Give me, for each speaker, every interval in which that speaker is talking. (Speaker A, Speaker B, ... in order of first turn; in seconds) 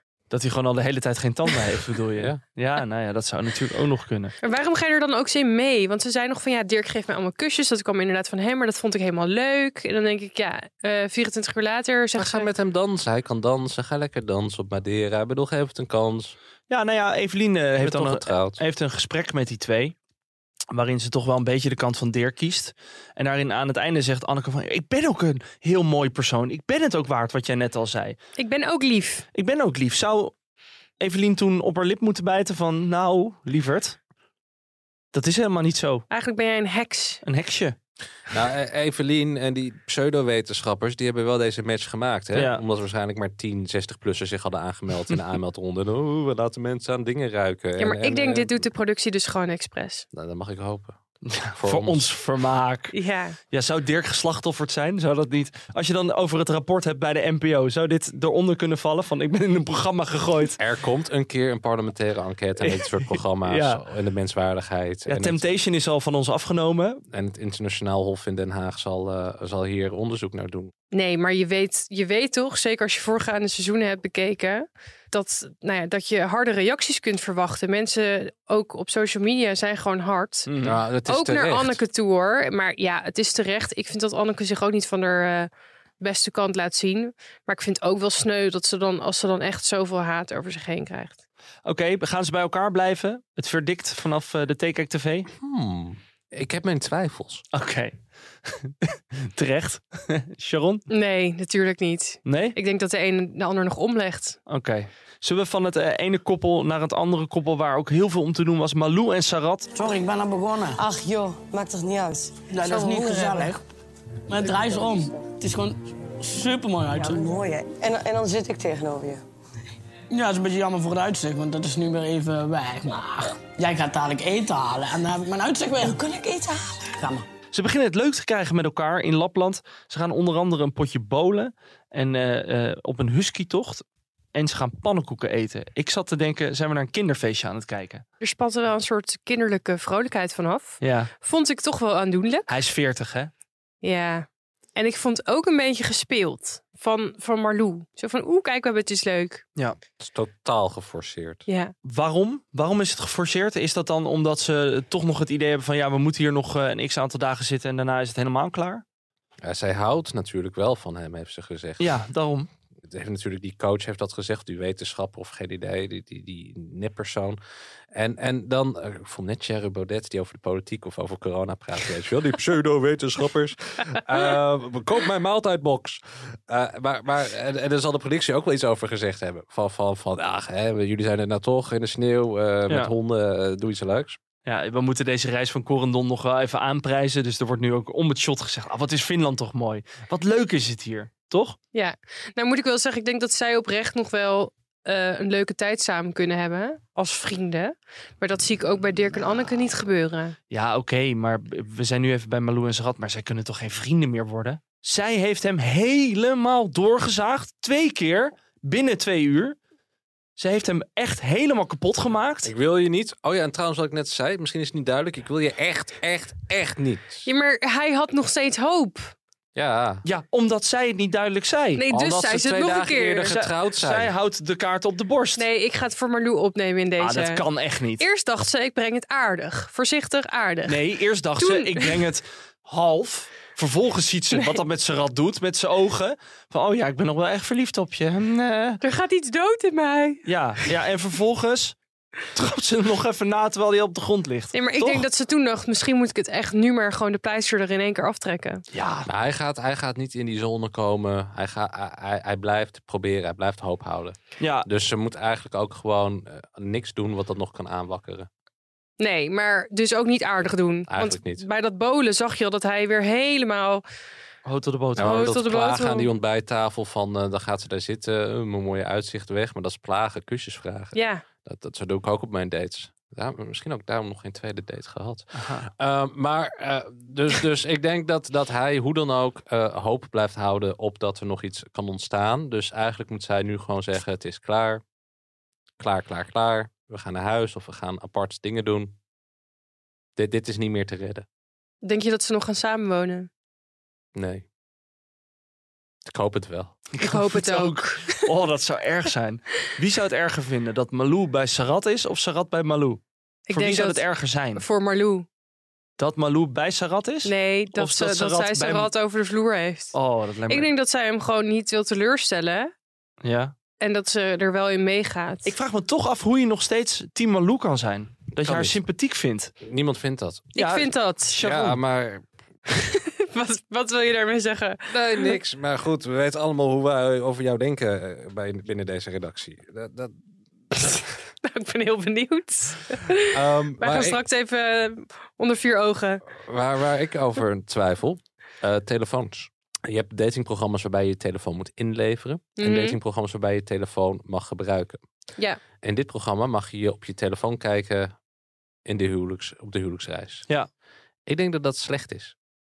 Speaker A: 0.3-4.3, 16.7-19.9, 20.7-28.2, 29.3-30.3, 31.0-34.0, 35.1-36.0, 37.2-37.8, 42.3-42.6, 51.2-52.9, 53.5-60.6, 62.6-63.8, 65.1-67.0, 80.5-80.8, 91.6-95.3, 97.5-100.8, 102.2-102.5, 104.5-109.7, 127.5-138.0, 140.8-141.1, 142.5-143.3, 151.8-158.8, 161.8-162.5, 184.4-191.6, 200.5-209.6, 210.4-212.5, 220.0-221.8, 223.3-225.4, 227.0-228.0, 230.7-238.8, 240.2-241.7, 242.3-245.1, 248.7-249.1, 254.4-254.7, 264.4-265.3, 275.3-275.7, 296.9-304.6, 306.0-308.9, 309.9-310.7, 313.2-313.5, 315.4-319.5, 320.6-321.8
Speaker B: 4.4-12.5, 28.4-29.2, 36.1-37.2, 47.8-50.0, 52.9-53.4, 70.9-80.5, 81.1-85.5, 86.0-91.2, 100.9-104.4, 138.2-142.5, 143.8-149.4, 151.5-151.7, 191.7-200.3, 217.2-219.1, 221.8-223.3, 225.4-227.4, 228.0-230.8, 231.4-232.0, 238.8-240.2, 244.5-248.6, 259.0-263.8, 265.0-266.1, 270.9-271.2, 291.8-293.3, 297.0-298.2, 303.5-305.2, 307.2-309.9, 310.5-312.7, 313.8-315.5, 320.6-321.3, 322.7-325.3, 330.8-336.2, 342.6-343.0
Speaker C: 12.1-16.3, 17.8-18.6, 38.3-48.6, 50.1-51.0, 51.6-52.0, 60.6-65.5, 67.1-70.7, 80.6-81.8, 95.4-97.4, 150.0-151.4, 159.4-161.9, 162.9-167.4, 167.9-184.2, 212.4-217.3, 219.5-220.0, 221.9-224.1, 249.1-258.3, 260.9-261.4, 264.9-284.8, 285.8-288.9, 290.1-291.2, 294.1-294.4, 296.0-296.8, 318.4-318.8, 319.6-320.5, 321.4-322.2, 324.9-330.2, 333.3-334.2, 336.4-345.0, 345.8-348.1, 348.9-350.4, 351.3-352.3
Speaker D: 109.7-110.8, 112.5-113.6, 114.3-117.4, 120.1-127.2
Speaker E: 110.8-113.5, 114.4-115.0, 116.9-119.2, 125.8-126.5